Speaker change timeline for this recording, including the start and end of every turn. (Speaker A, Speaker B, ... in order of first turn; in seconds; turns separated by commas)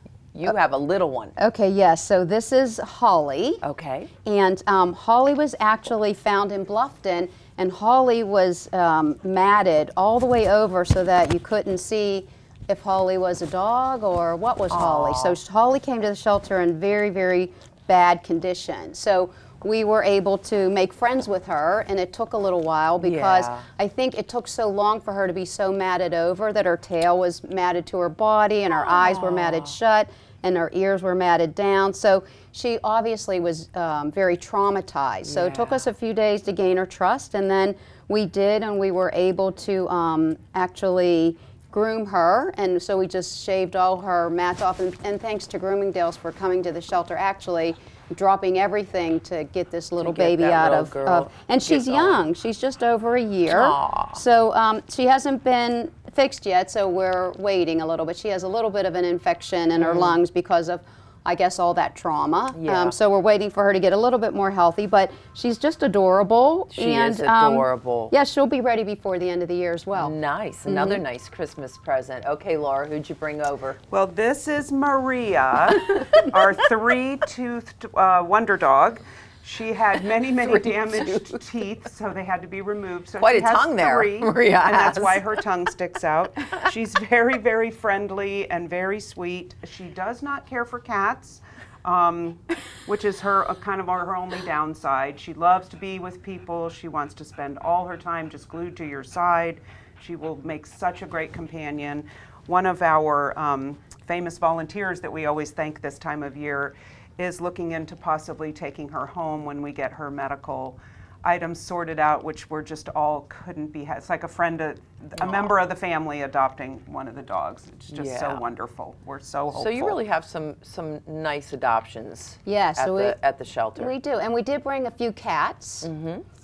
Speaker A: 0.3-1.3, Speaker B: 1.4-3.6, Speaker A: 3.6-4.1, Speaker B: 4.2-71.0, Speaker A: 14.7-15.4, Speaker A: 23.0-23.6, Speaker A: 28.7-29.7, Speaker A: 35.2-35.8, Speaker A: 50.0-52.2, Speaker A: 53.5-54.2, Speaker A: 59.8-60.2, Speaker A: 62.5-62.9, Speaker A: 66.7-68.1, Speaker A: 69.9-73.8, Speaker C: 73.9-120.0, Speaker A: 80.3-81.4, Speaker A: 83.2-85.3, Speaker A: 115.2-115.5, Speaker A: 117.9-118.4, Speaker A: 119.5-123.9, Speaker B: 122.4-123.2, Speaker B: 123.8-125.9, Speaker A: 125.8-126.2